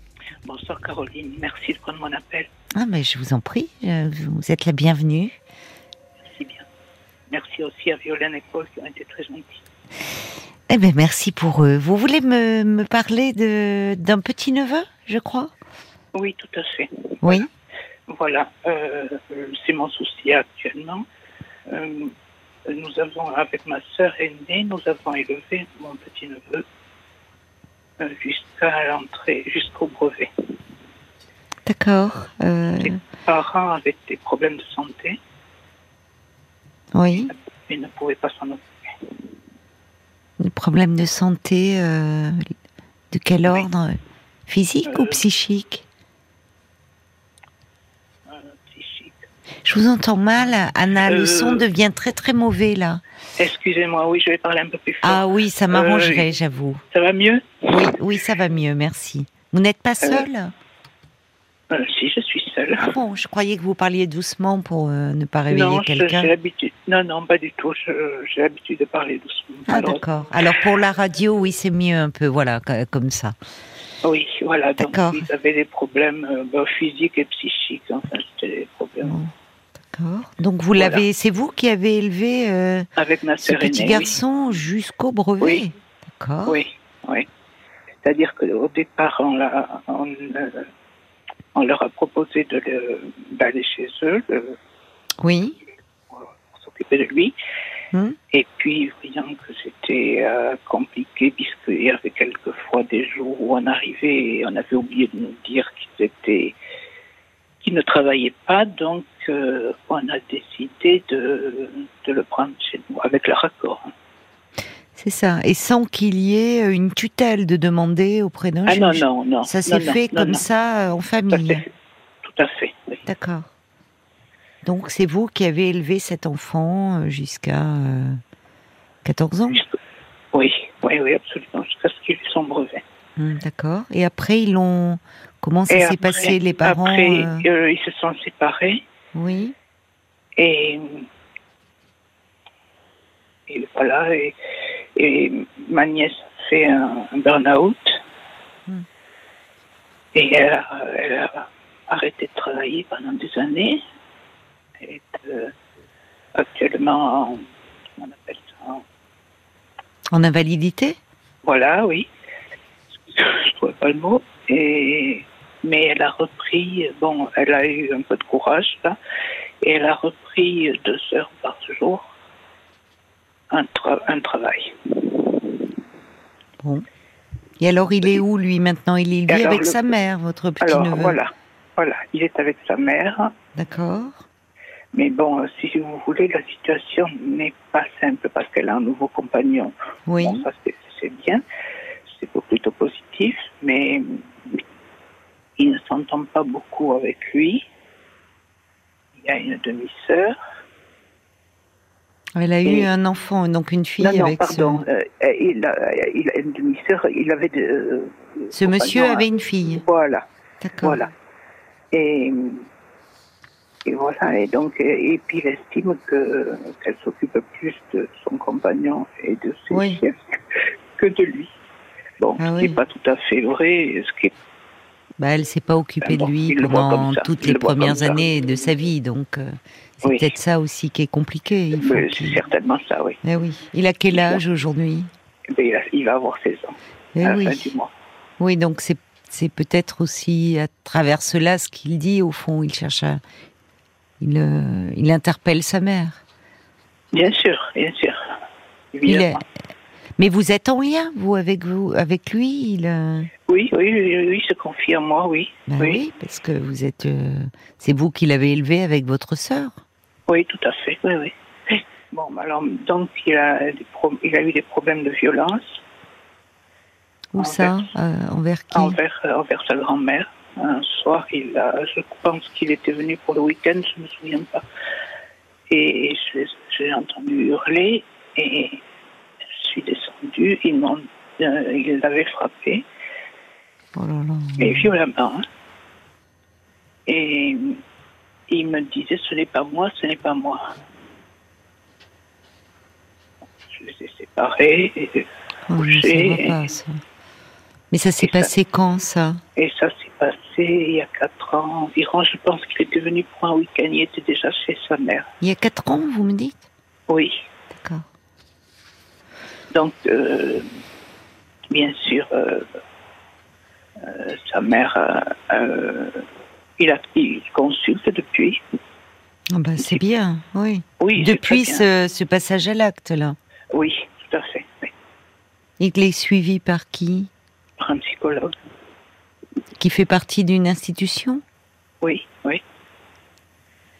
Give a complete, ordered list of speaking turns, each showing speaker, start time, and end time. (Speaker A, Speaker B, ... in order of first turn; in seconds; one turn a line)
Speaker A: 0.5-2.5
Speaker B: 2.8-5.4
Speaker A: 6.3-6.7
Speaker A: 7.3-9.6
Speaker B: 10.7-15.5
Speaker A: 16.1-17.5
Speaker B: 17.2-17.5
Speaker A: 18.1-21.1
Speaker A: 21.7-22.1
Speaker A: 22.6-26.7
Speaker A: 28.0-30.3
Speaker B: 31.7-33.0
Speaker A: 32.8-35.2
Speaker B: 36.9-37.3
Speaker A: 37.3-39.1
Speaker B: 40.4-42.5
Speaker B: 43.1-45.9
Speaker A: 44.9-45.2
Speaker A: 48.3-49.2
Speaker B: 49.6-53.0
Speaker A: 51.1-51.6
Speaker A: 53.4-56.3
Speaker B: 55.0-56.8
Speaker A: 56.9-58.0
Speaker B: 57.7-60.5
Speaker A: 61.7-62.9
Speaker B: 62.8-66.3
Speaker A: 65.5-70.0
Speaker B: 69.7-73.3
Speaker A: 74.0-79.2
Speaker B: 74.8-75.3
Speaker B: 79.0-79.3
Speaker B: 79.9-82.9
Speaker A: 80.8-81.0
Speaker A: 83.0-84.2
Speaker B: 83.4-86.6
Speaker A: 86.5-87.3
Speaker A: 88.0-90.7
Speaker A: 91.5-94.6
Speaker B: 95.2-95.6
Speaker A: 96.1-97.3
Speaker B: 97.9-98.2
Speaker A: 98.3-106.6
Speaker A: 107.6-113.9
Speaker B: 115.0-121.6
Speaker A: 118.7-120.4
Speaker A: 121.3-121.7
Speaker A: 122.2-123.0
Speaker B: 123.1-123.5
Speaker B: 124.7-128.2
Speaker B: 129.1-129.6
Speaker A: 130.3-132.8
Speaker B: 133.2-137.5
Speaker A: 135.7-138.8
Speaker B: 139.2-139.6
Speaker A: 140.4-141.1
Speaker A: 143.5-144.4
Speaker A: 145.0-148.0
Speaker A: 150.1-153.8
Speaker A: 154.8-155.5
Speaker A: 156.3-157.4
Speaker A: 158.0-158.8
Speaker B: 160.1-161.0
Speaker A: 161.4-162.1
Speaker A: 163.1-169.0
Speaker A: 169.6-172.1
Speaker A: 173.5-175.8
Speaker B: 176.6-176.8
Speaker B: 177.6-181.2
Speaker A: 179.3-180.0
Speaker A: 180.6-183.3
Speaker B: 183.6-184.2
Speaker A: 184.9-191.4
Speaker B: 190.1-190.5
Speaker A: 192.1-194.6
Speaker A: 195.6-197.7
Speaker A: 199.2-200.3
Speaker B: 202.4-204.8
Speaker A: 202.6-202.9
Speaker A: 204.0-210.3
Speaker B: 208.5-209.8
Speaker B: 210.6-211.0
Speaker A: 210.8-211.1
Speaker A: 211.9-212.7
Speaker A: 213.8-221.5
Speaker B: 219.7-220.0
Speaker A: 222.2-224.3
Speaker B: 222.4-222.8
Speaker B: 225.2-232.4
Speaker A: 226.0-228.3
Speaker A: 230.0-230.3
Speaker A: 231.8-233.2
Speaker B: 233.2-235.1
Speaker A: 234.1-234.4
Speaker A: 235.5-237.9
Speaker B: 237.2-237.7
Speaker B: 238.4-243.2
Speaker B: 244.2-246.2
Speaker A: 247.1-248.3
Speaker A: 248.9-249.4
Speaker B: 249.1-249.4
Speaker B: 250.2-253.3
Speaker A: 253.5-256.0
Speaker B: 255.7-259.8
Speaker A: 260.3-265.8
Speaker B: 267.3-269.0
Speaker A: 267.4-267.7
Speaker A: 268.7-274.7
Speaker A: 275.7-278.8
Speaker A: 279.4-282.9
Speaker B: 283.9-284.9
Speaker A: 284.6-285.5
Speaker A: 287.1-287.8
Speaker A: 288.5-290.8
Speaker A: 293.6-296.6
Speaker B: 295.7-297.0
Speaker B: 297.9-299.4
Speaker A: 298.2-298.5
Speaker A: 299.6-305.3
Speaker B: 305.4-306.6
Speaker A: 307.1-307.4
Speaker B: 307.7-308.1
Speaker A: 309.7-310.7
Speaker A: 311.7-312.7
Speaker A: 314.0-316.2
Speaker A: 316.8-318.6
Speaker B: 319.5-323.4
Speaker A: 321.0-321.9
Speaker A: 323.7-324.9
Speaker B: 325.8-327.3
Speaker A: 327.8-328.6
Speaker B: 329.8-331.4
Speaker A: 332.0-332.6